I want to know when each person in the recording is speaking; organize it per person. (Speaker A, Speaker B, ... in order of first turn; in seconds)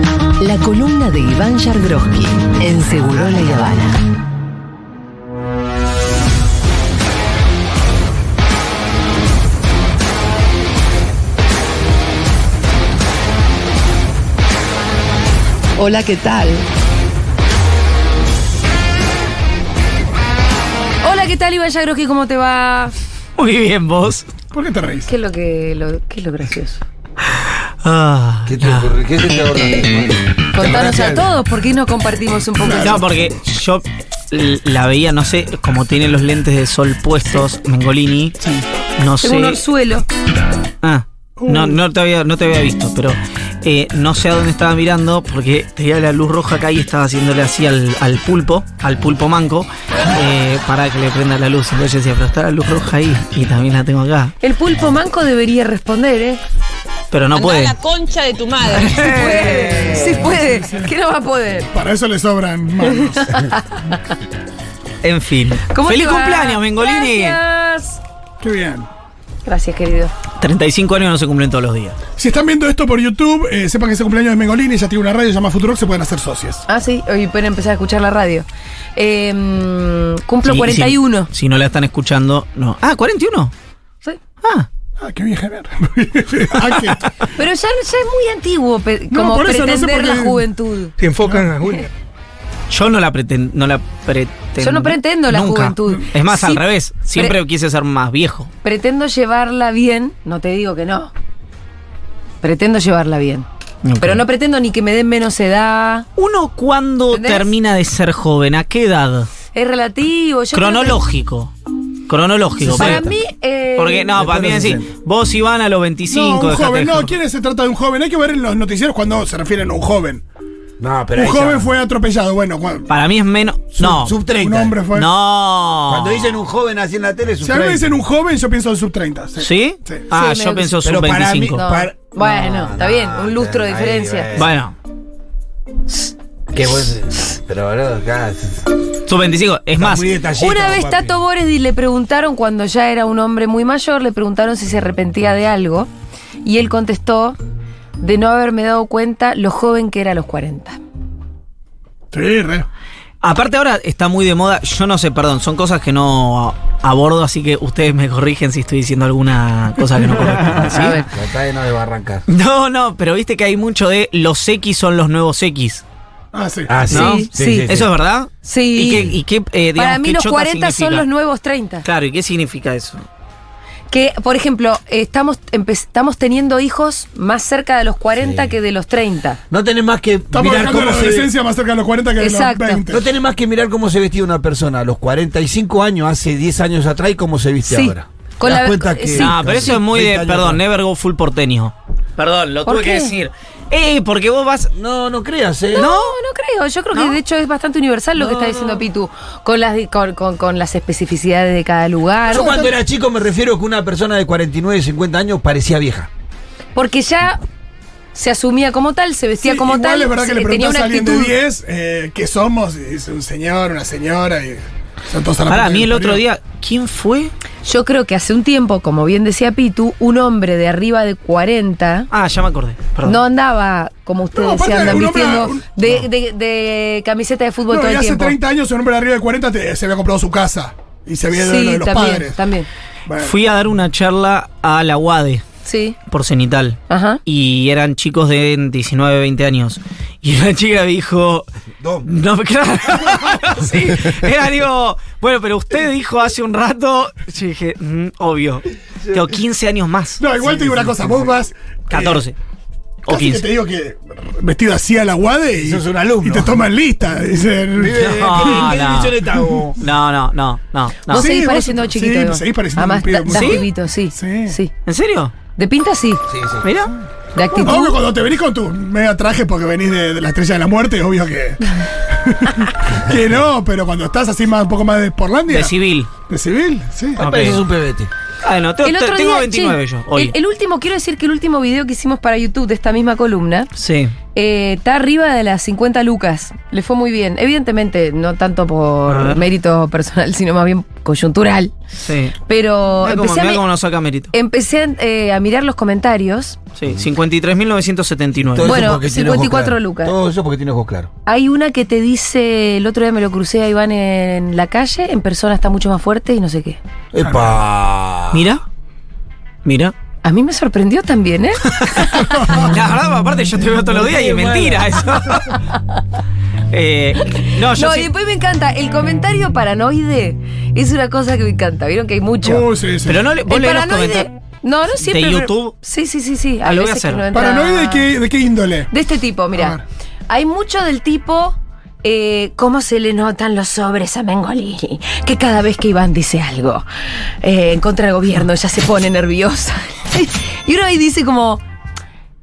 Speaker A: 0.4-3.9, 15.8-16.6
Speaker B: 0.5-2.0, 2.5-3.8, 15.8-16.6, 21.0-22.9, 25.1-26.8, 30.5-33.0, 39.2-40.0, 54.4-56.4, 58.9-61.7, 62.9-64.0, 65.7-68.0, 69.4-70.1, 76.7-81.3, 87.3-91.0, 91.5-91.8, 94.6-96.6, 98.6-101.1, 102.4-103.5, 104.0-106.1, 107.1-107.5, 109.5-111.0, 112.7-114.5, 130.1-130.7, 131.5-134.3, 140.4-145.9, 146.4-147.4, 148.0-150.8, 160.7-161.1, 166.9-167.7, 168.4-169.1, 169.8-171.8, 173.9-179.4, 182.2-182.8, 187.7-189.4, 192.7-193.1, 195.7-202.7, 206.7-207.4, 208.1-211.3, 217.6-222.1, 223.0-228.3, 231.3-232.7, 235.6-236.0, 236.9-237.2, 261.1-264.7, 265.6-266.2, 267.3-268.0, 278.8-283.7, 284.3-291.7, 292.4-293.6, 294.3-296.6, 298.6-300.1, 301.2-306.8, 310.2-311.9, 317.2-322.7, 323.5-328.1, 328.9-336.8, 337.4-341.6
Speaker C: 23.4-24.3, 27.3-28.9, 32.7-38.4, 39.0-39.6, 40.8-54.3, 57.1-57.8, 58.7-60.2, 65.0-67.4, 70.4-72.0, 80.5-83.5, 86.7-87.1, 92.7-98.5, 103.8-104.2, 106.2-109.3, 110.5-111.5, 112.1-113.1, 113.8-117.1, 122.9-124.2, 124.9-126.4, 129.4-131.6, 134.3-134.7, 139.1-140.1, 153.2-161.1, 162.3-165.8, 166.9-171.0, 171.8-173.0, 189.1-194.7, 195.7-196.1, 196.9-197.2, 198.2-198.8, 215.5-217.3, 222.1-223.2, 233.2-235.4, 236.1-241.5, 242.0-250.2, 251.9-252.3, 253.0-253.4, 258.0-259.2, 259.8-261.3, 263.3-263.6, 264.9-265.3, 266.6-266.9, 275.5-276.1, 277.2-277.6, 278.4-280.3, 283.8-284.1, 289.1-289.4, 292.0-292.4, 293.0-294.3, 296.8-298.8, 308.3-308.6, 309.6-309.9, 311.7-315.6, 316.7-318.1, 323.0-324.3, 325.0-325.8, 326.6-327.2
Speaker D: 24.5-25.1, 41.4-41.8, 60.3-60.9, 61.7-63.5, 68.4-68.9, 72.2-76.6, 85.0-87.1, 89.1-90.4, 91.0-91.9, 116.1-120.2, 121.1-122.9, 124.2-125.1, 127.4-130.0, 152.1-152.7, 166.3-166.8, 180.3-183.1, 202.3-202.7, 209.4-216.2, 224.3-226.0, 227.7-232.4, 233.1-233.3, 250.2-252.2, 253.1-258.7, 261.1-264.6, 267.5-275.7, 276.3-277.2, 312.4-312.7, 322.4-323.2, 327.3-328.9, 329.6-329.8
Speaker E: 28.5-31.3, 112.6-113.1, 114.1-114.9, 120.8-121.7, 123.7-124.8, 125.9-128.0, 130.8-134.5, 136.5-138.7, 139.8-141.2, 160.5-162.2, 166.7-167.9, 168.9-169.1, 178.2-178.5, 179.5-181.3, 182.9-190.6, 194.7-195.9, 202.3-206.1, 241.8-242.1, 249.0-249.3, 250.4-251.3, 255.6-256.6, 257.7-259.8, 266.3-266.7, 277.1-278.1, 298.5-301.1, 307.1-308.5, 313.8-315.3
Speaker F: 57.3-59.5